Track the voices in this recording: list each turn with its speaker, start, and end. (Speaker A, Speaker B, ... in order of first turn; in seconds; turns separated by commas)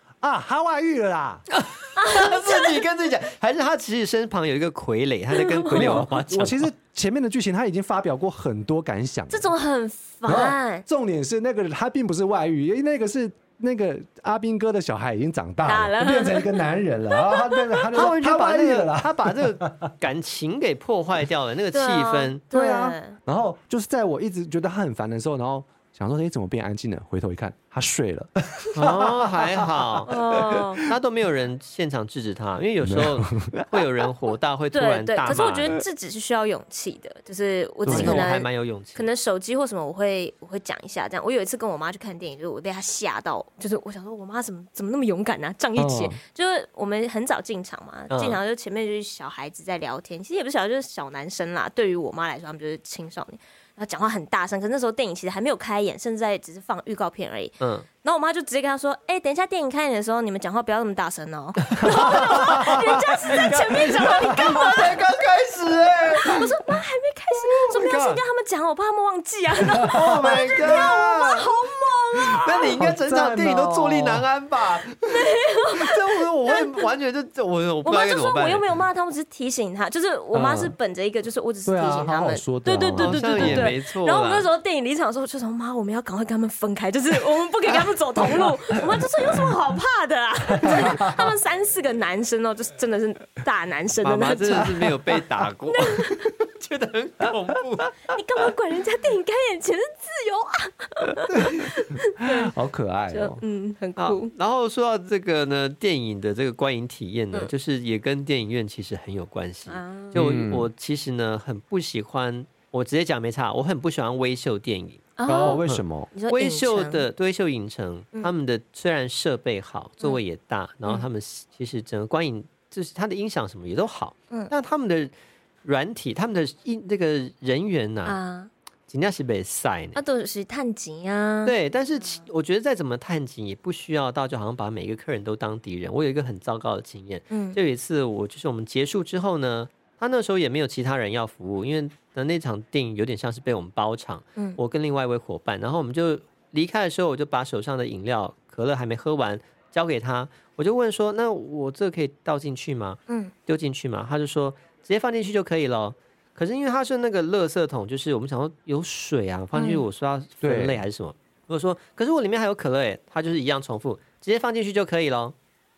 Speaker A: 0.2-1.4, Speaker B: 1.5-6.7, Speaker C: 1.9-2.8, Speaker C: 5.4-6.0, Speaker A: 5.7-9.5, Speaker C: 9.3-10.8, Speaker A: 10.2-19.9, Speaker C: 15.6-16.5, Speaker C: 17.2-17.8, Speaker B: 17.9-22.4, Speaker C: 21.7-23.2, Speaker A: 22.5-30.9, Speaker B: 28.7-30.1, Speaker C: 30.1-30.8, Speaker B: 30.8-35.8, Speaker A: 32.8-33.8, Speaker C: 34.7-65.0, Speaker A: 37.8-38.3, Speaker B: 37.9-39.1, Speaker A: 45.8-46.2, Speaker B: 48.1-48.4, Speaker B: 57.6-57.9, Speaker B: 61.8-66.5, Speaker A: 61.8-62.8, Speaker A: 63.8-64.8, Speaker C: 66.1-72.8, Speaker B: 67.7-68.2, Speaker A: 69.8-71.0, Speaker B: 69.9-71.5, Speaker B: 72.4-78.6, Speaker A: 72.7-74.2, Speaker C: 75.1-76.9, Speaker C: 77.8-94.9, Speaker A: 80.3-80.7, Speaker A: 81.7-83.7, Speaker B: 83.0-84.5, Speaker A: 88.9-89.5, Speaker A: 90.5-91.3, Speaker B: 94.0-98.0, Speaker C: 95.7-96.3, Speaker C: 98.1-102.5, Speaker A: 101.3-103.4, Speaker C: 103.1-104.3, Speaker B: 104.0-125.1, Speaker C: 109.7-110.2, Speaker A: 110.1-110.7, Speaker C: 115.2-115.6, Speaker A: 115.2-116.1, Speaker C: 116.1-117.0, Speaker B: 125.6-128.2, Speaker C: 128.1-128.5, Speaker B: 128.9-130.0, Speaker C: 129.9-132.2, Speaker B: 131.4-165.3, Speaker C: 137.3-137.6, Speaker C: 153.1-153.3, Speaker C: 159.5-159.8, Speaker A: 160.4-160.8